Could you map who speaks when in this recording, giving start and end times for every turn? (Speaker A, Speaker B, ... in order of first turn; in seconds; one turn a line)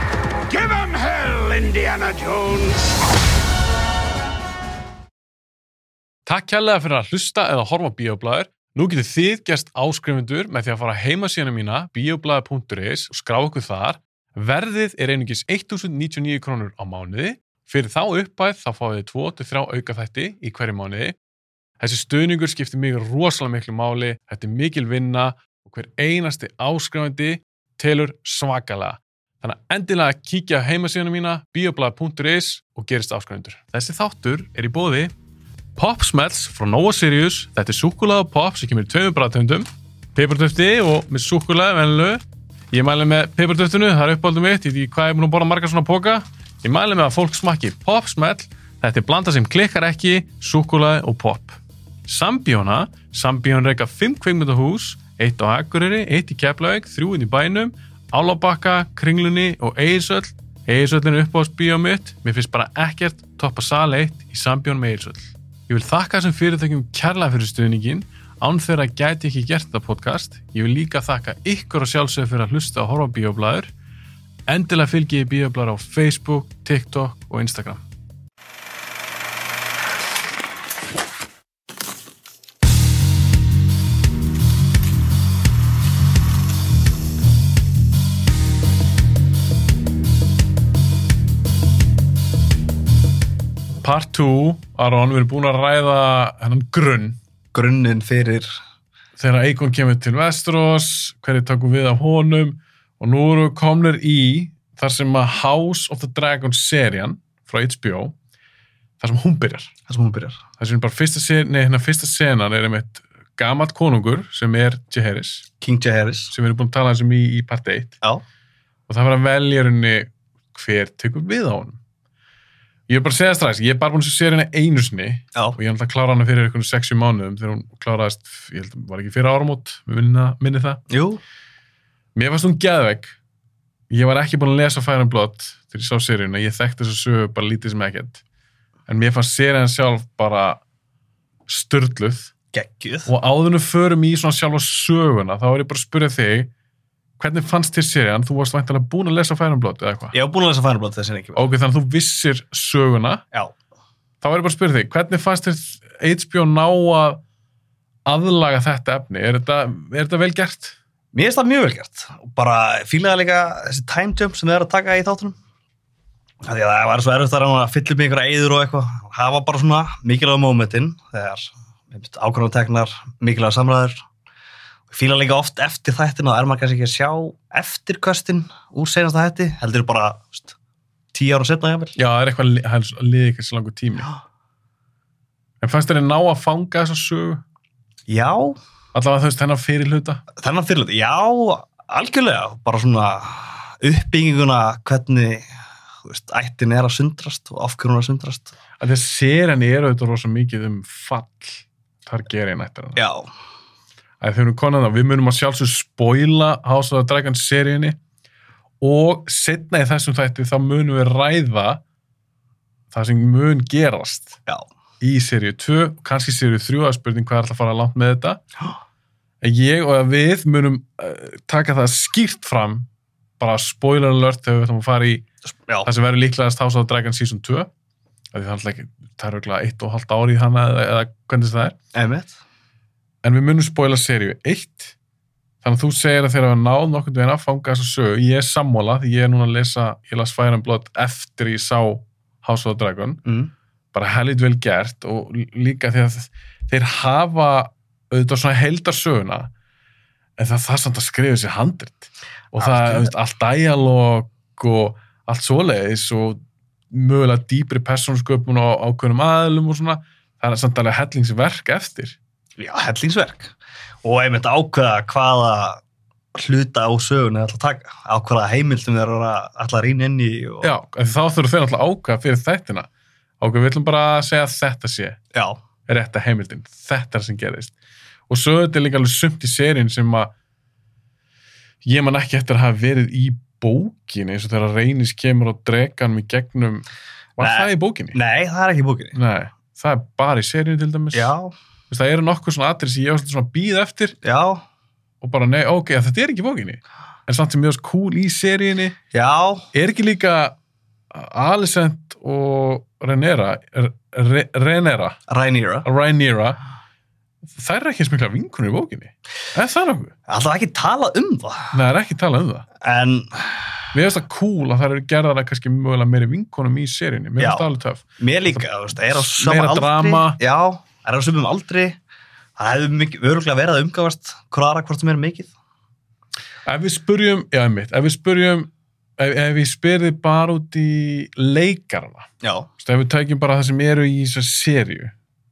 Speaker A: 0.5-2.9
Speaker B: 6.2-21.1
Speaker B: 21.8-35.1
Speaker B: 35.8-73.7
Speaker B: 74.5-77.8
Speaker B: 93.8-97.2
Speaker C: 97.5-98.5
Speaker B: 99.2-108.2
Speaker B: 109.0-109.7
Speaker C: 109.9-110.4
Speaker B: 110.6-115.5
Speaker C: 115.6-116.3
Speaker B: 116.3-118.0
Speaker B: 118.9-121.8
Speaker B: 122.9-130.8
Speaker C: 130.9-131.2
Speaker B: 132.2-133.2
Speaker B: 133.9-138.2
Speaker B: 138.9-140.6
Speaker B: 141.5-142.3
Speaker C: 142.5-143.1
Speaker B: 143.1-146.5
Speaker B: 147.2-150.2
Speaker C: 150.1-151.4
Speaker B: 151.3-153.2
Speaker B: 154.2-157.2
Speaker B: 158.1-160.8
Speaker C: 161.1-165.3
Speaker C: 166.4-174.0
Speaker C: 174.9-180.5
Speaker C: 181.1-182.0
Speaker B: 182.0-184.1
Speaker B: 185.6-187.4
Speaker C: 188.1-188.6
Speaker B: 188.9-190.2
Speaker C: 190.4-195.4
Speaker C: 196.0-198.5
Speaker B: 198.8-203.0
Speaker C: 202.9-203.3
Speaker B: 204.2-208.0
Speaker B: 208.8-211.8
Speaker B: 212.9-214.4
Speaker B: 215.0-218.4
Speaker B: 219.4-222.9
Speaker B: 223.4-225.2
Speaker C: 225.5-225.9
Speaker B: 225.8-227.7
Speaker B: 228.3-231.8
Speaker C: 231.9-232.3
Speaker B: 233.2-234.9
Speaker B: 235.6-243.2
Speaker C: 243.2-243.5
Speaker B: 243.9-249.5
Speaker B: 250.4-256.4
Speaker C: 252.6-253.1
Speaker B: 256.9-262.2
Speaker C: 262.6-265.8
Speaker C: 266.3-270.7
Speaker B: 270.6-272.9
Speaker B: 273.4-275.2
Speaker C: 275.3-275.6
Speaker B: 275.9-277.7
Speaker B: 278.3-280.3
Speaker B: 281.8-286.9
Speaker B: 287.4-288.2
Speaker C: 287.4-289.1
Speaker B: 289.1-291.3
Speaker C: 291.1-291.5
Speaker B: 291.9-294.1
Speaker C: 294.2-294.6
Speaker B: 295.2-298.9
Speaker C: 299.1-299.6
Speaker B: 299.7-300.6
Speaker B: 301.1-305.2
Speaker C: 305.3-305.9
Speaker B: 305.8-306.6
Speaker B: 307.5-310.1
Speaker C: 310.3-311.7
Speaker B: 311.7-312.6
Speaker C: 312.8-313.8
Speaker B: 313.9-320.4
Speaker C: 317.4-317.6
Speaker C: 318.2-322.0
Speaker C: 322.6-325.5
Speaker B: 326.6-335.1
Speaker C: 332.4-332.7